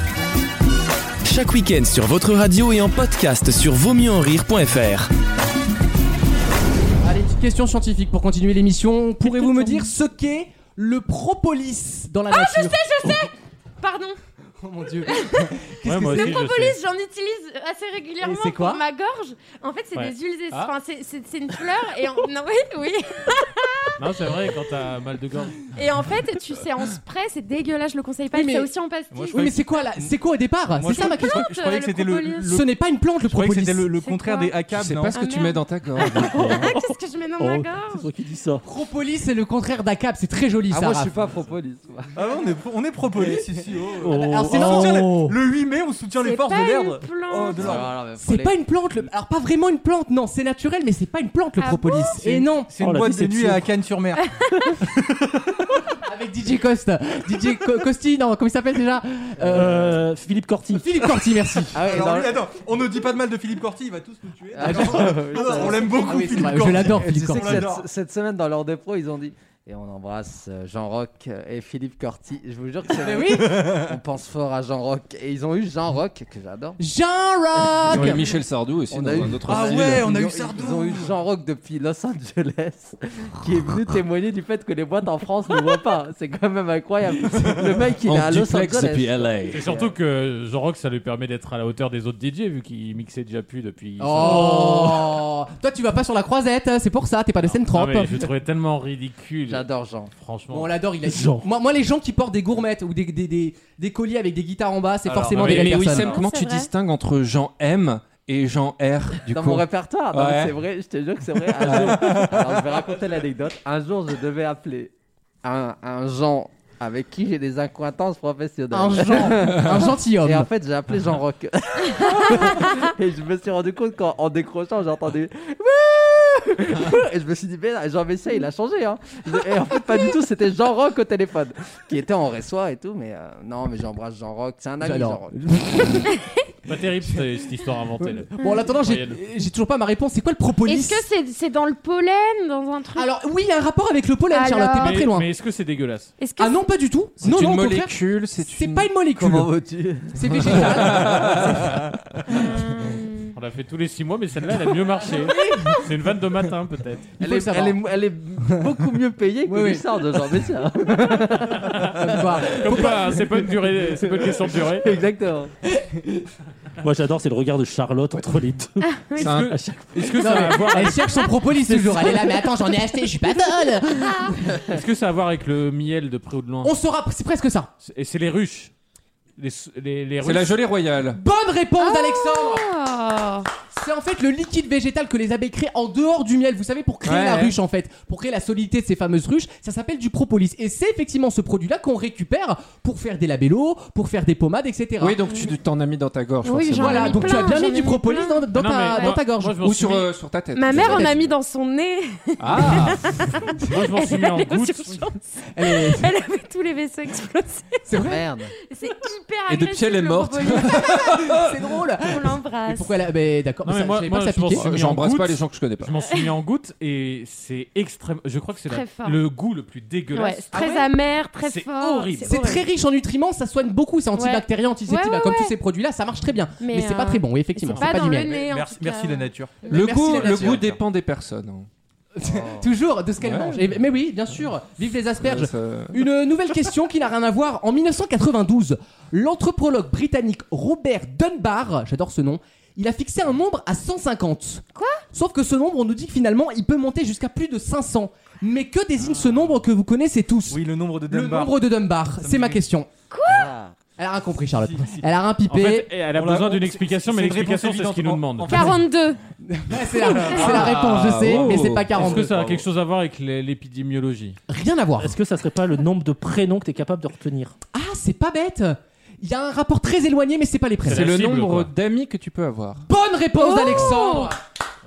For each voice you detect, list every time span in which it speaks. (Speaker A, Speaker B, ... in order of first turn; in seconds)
Speaker A: 1.2-5.1
Speaker B: 7.0-12.8, 14.6-16.4, 18.2-18.8, 28.3-28.7, 29.3-31.5, 32.5-33.9, 38.6-41.1, 44.1-45.4, 48.1-52.7, 56.0-60.0, 60.7-61.9, 64.7-65.1, 65.9-67.7, 73.0-73.6, 76.8-78.4, 94.0-98.3, 100.5-106.1, 118.7-120.5, 134.8-136.1, 138.0-141.0, 142.9-145.3, 146.4-149.5, 150.1-151.5, 155.0-155.8, 157.2-157.8, 159.4-160.3, 162.0-163.5, 165.8-166.1, 170.2-174.6, 176.6-177.7, 181.1-182.6, 183.7-195.2, 196.7-199.6, 200.7-201.1, 205.5-206.1, 207.9-208.3, 211.2-214.7, 220.5-220.8, 222.2-228.4, 229.7-230.7, 232.2-252.9, 254.0-255.9, 259.4-262.3, 264.5-265.1, 267.7-271.1, 272.8-274.4
Speaker C: 9.2-9.9, 36.3-36.9, 37.4-38.6, 44.0-44.9, 52.8-53.5, 59.5-61.0, 101.0-101.4, 166.8-168.8, 169.5-170.1, 265.0-267.5
Speaker D: 12.3-14.2, 15.1-15.5, 16.1-24.0, 25.7-29.5, 30.9-32.6, 34.0-34.5, 35.1-38.1, 46.2-47.8, 51.6-52.1, 54.1-54.8, 105.9-106.7, 122.0-122.8, 136.0-136.5, 140.7-143.1, 144.3-145.1, 146.2-146.6, 152.3-153.3, 168.8-169.4, 170.9-171.2, 173.8-174.4, 181.8-183.5, 196.4-199.2, 200.5-211.1, 212.0-212.9, 218.7-219.2, 220.1-222.6, 224.2-225.5, 226.6-230.0, 244.7-245.0, 253.1-253.5, 258.5-259.2, 260.0-260.7, 273.4-274.3
Speaker E: 15.8-16.8, 19.9-20.7, 24.0-25.7, 89.5-95.0, 97.5-100.8, 136.7-139.2, 144.8-146.1, 153.3-157.1, 161.4-165.0, 169.2-171.2, 174.7-176.7, 177.8-178.7, 179.4-180.6, 198.5-200.1, 203.7-205.0, 213.6-220.8, 221.4-222.4, 249.0-249.5, 255.5-258.7, 261.1-264.4, 270.8-271.7
Speaker F: 29.1-30.1, 30.7-32.7, 33.2-35.1, 42.1-48.0, 52.2-54.2, 54.8-55.6, 61.8-67.8, 73.4-73.9, 79.4-81.1, 105.0-105.9, 227.9-230.8, 250.5-252.6, 254.5-255.0, 256.1-258.8, 260.2-262.6
Speaker G: 34.7-36.6, 77.8-80.1, 88.0-89.7, 105.3-110.5, 111.6-112.5, 147.2-149.3, 150.3-151.8, 169.2-169.6, 180.2-181.2, 187.0-187.6, 195.0-197.4, 199.6-201.3, 202.4-203.2, 209.5-211.7, 214.5-215.9, 229.7-231.7, 233.2-233.6, 235.2-236.1, 260.3-261.9, 270.9-272.8
Speaker H: 40.7-42.1, 47.6-48.6, 61.7-62.4, 64.5-66.3, 66.8-76.8, 77.8-78.2, 78.9-89.9, 99.5-100.1, 109.3-114.9, 115.4-135.3, 149.3-150.5, 157.2-161.9, 162.5-162.8, 163.8-165.5, 208.0-208.5, 232.2-232.7, 253.3-253.8